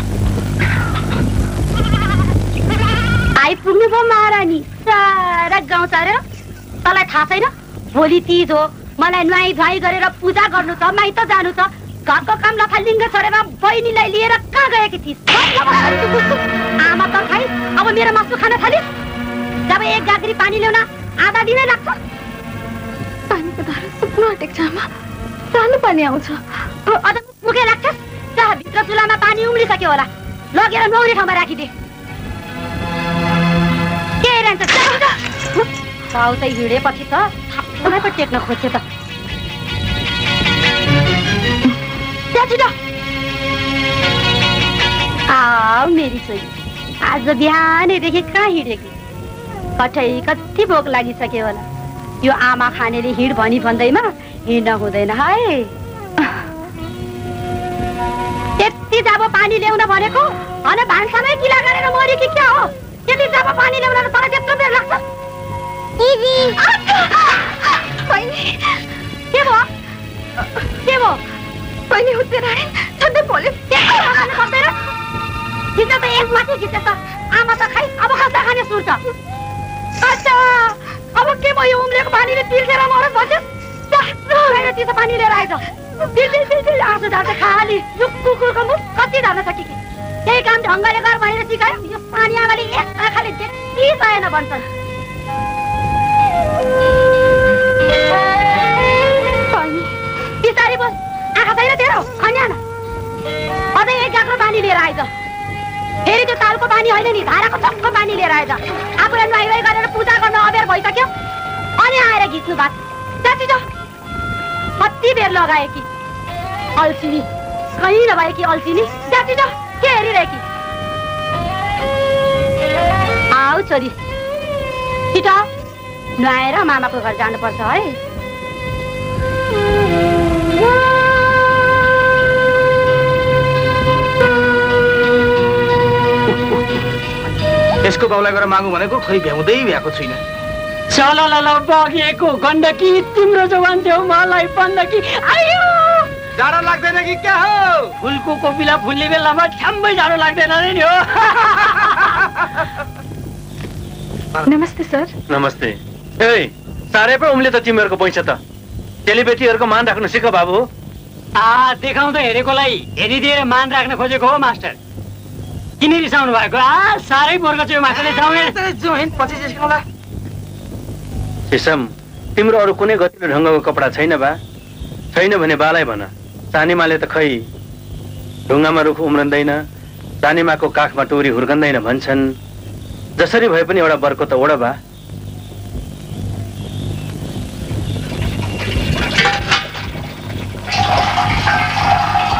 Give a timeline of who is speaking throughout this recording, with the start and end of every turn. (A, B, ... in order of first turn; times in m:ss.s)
0:03.4-0:06.2 A
0:06.8-0:16.2 A
0:16.8-0:18.8 A
0:19.7-0:22.0 A
0:23.3-0:24.9 B
0:25.5-0:26.4 B
0:26.8-0:31.7 A
0:34.2-0:35.2 A
0:36.1-0:38.8 A
0:42.3-0:42.7 A
0:45.3-0:46.5 A
0:47.0-0:49.0 A
0:49.8-0:51.6 A
0:52.2-0:55.7 A
0:58.6-1:05.0 A
1:06.3-1:06.5 B
1:07.2-1:08.8 B
1:09.3-1:09.7 A
1:10.8-1:11.2 A
1:11.9-1:13.6 B
1:13.7-1:14.7 A
1:15.7-1:19.0 A
1:20.0-1:34.6 A
1:39.5-1:39.9 B
1:40.4-1:42.6 A
1:43.7-1:45.1 A
1:46.0-1:51.1 A
1:51.8-1:53.6 A
1:54.8-1:55.9 A
1:56.8-2:00.4 A
2:03.3-2:03.9 A
2:05.1-2:05.5 A
2:06.2-2:08.0 A
2:17.8-2:20.2 C
2:20.9-2:26.1 D
2:26.4-2:27.9 C
2:28.0-2:32.4 D
2:34.4-2:35.1 B
2:35.3-2:38.4 E
2:39.0-2:40.6 E
2:41.4-2:44.8 D
2:45.8-2:48.7 D
2:48.9-2:49.8 C
2:51.5-2:54.4 E
2:55.1-2:57.4 E
2:58.5-2:59.6 E
3:00.2-3:02.3 E
3:03.2-3:04.7 E